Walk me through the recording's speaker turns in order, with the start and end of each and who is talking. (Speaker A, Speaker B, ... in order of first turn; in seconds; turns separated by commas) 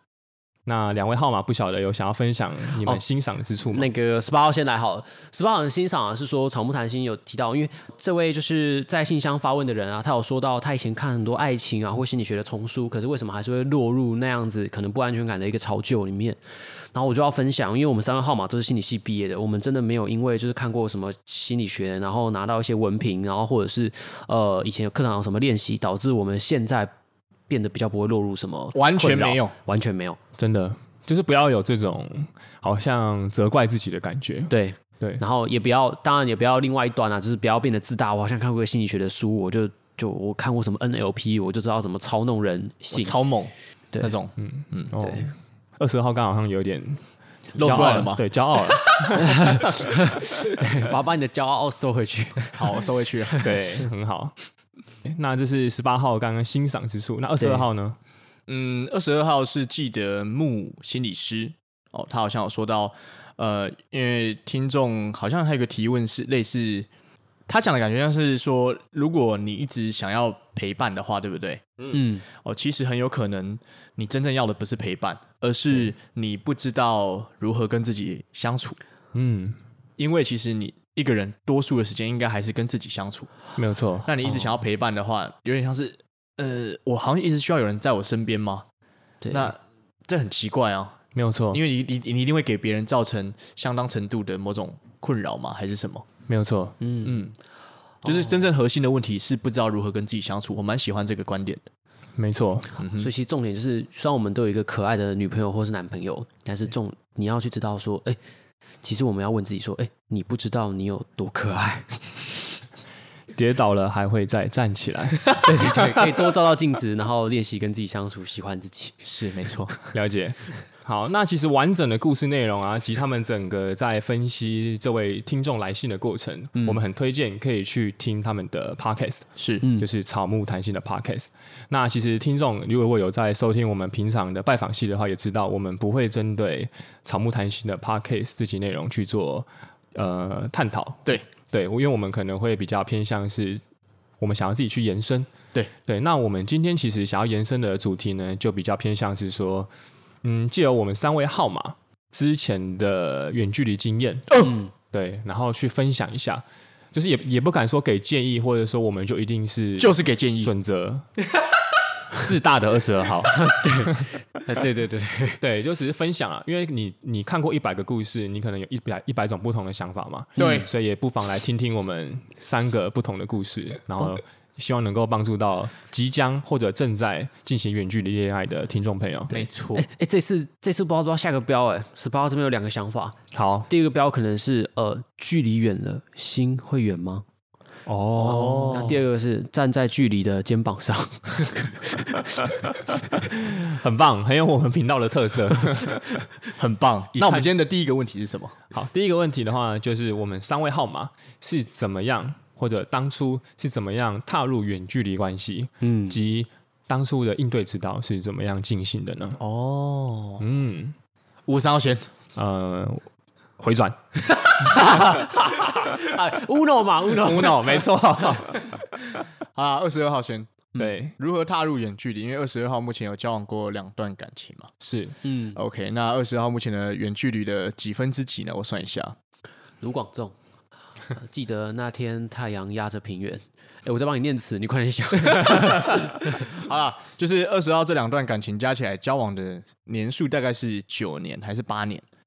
Speaker A: 0.7-3.9, Speaker B: 3.7-26.9, Speaker B: 27.5-30.2, Speaker C: 28.7-29.5, Speaker A: 30.4-35.2, Speaker B: 34.5-43.2, Speaker C: 42.9-44.9, Speaker A: 44.4-47.0, Speaker B: 45.0-45.3, Speaker C: 47.6-48.2, Speaker A: 47.6-50.0, Speaker B: 47.7-48.0, Speaker B: 48.8-53.8, Speaker C: 52.5-53.5, Speaker A: 53.4-54.4, Speaker A: 55.0-58.0, Speaker B: 57.4-57.7, Speaker C: 58.5-66.9, Speaker C: 67.5-78.8, Speaker B: 71.9-72.2, Speaker A: 79.2-79.6, Speaker C: 80.0-83.3, Speaker A: 83.6-84.1, Speaker C: 84.1-88.7, Speaker B: 89.2-89.5, Speaker C: 89.3-91.0, Speaker A: 91.2-91.6, Speaker C: 91.5-96.1, Speaker A: 96.3-96.8, Speaker B: 96.8-97.3, Speaker C: 97.0-97.3, Speaker C: 98.0-101.6, Speaker B: 98.1-98.4, Speaker A: 102.2-102.7, Speaker C: 102.8-103.1, Speaker B: 103.0-108.2, Speaker B: 108.8-112.4, Speaker A: 113.3-116.0, Speaker B: 115.3-119.0, Speaker C: 119.0-119.8, Speaker A: 119.9-143.6, Speaker B: 126.6-126.8, Speaker C: 129.4-129.6, Speaker A: 144.2-145.3, Speaker A: 145.8-149.7, Speaker A: 150.2-156.4, Speaker B: 154.4-154.7, Speaker A: 156.9-161.1, Speaker C: 159.8-160.5, Speaker A: 162.1-164.0, Speaker B: 163.3-165.4, Speaker A: 165.4-179.5, Speaker B: 170.4-170.7, Speaker C: 170.4-170.7, Speaker C: 179.3-179.9, Speaker B: 179.8-187.2, Speaker A: 183.3-183.7, Speaker A: 187.9-189.0, Speaker B: 188.2-192.5, Speaker C: 188.2-189.0, Speaker A: 193.1-196.2, Speaker C: 196.6-198.6, Speaker A: 197.2-197.5, Speaker A: 198.7-209.4, Speaker B: 205.8-206.2, Speaker C: 209.4-210.4, Speaker A: 210.4-210.9, Speaker C: 211.5-212.1, Speaker A: 212.4-213.1, Speaker A: 213.6-214.0, Speaker B: 214.5-217.9, Speaker A: 217.2-218.7, Speaker C: 219.6-224.7, Speaker A: 220.8-221.2, Speaker A: 224.8-225.2, Speaker B: 225.2-225.6, Speaker C: 225.5-229.2, Speaker B: 229.8-230.3, Speaker B: 231.1-236.6, Speaker C: 236.4-242.1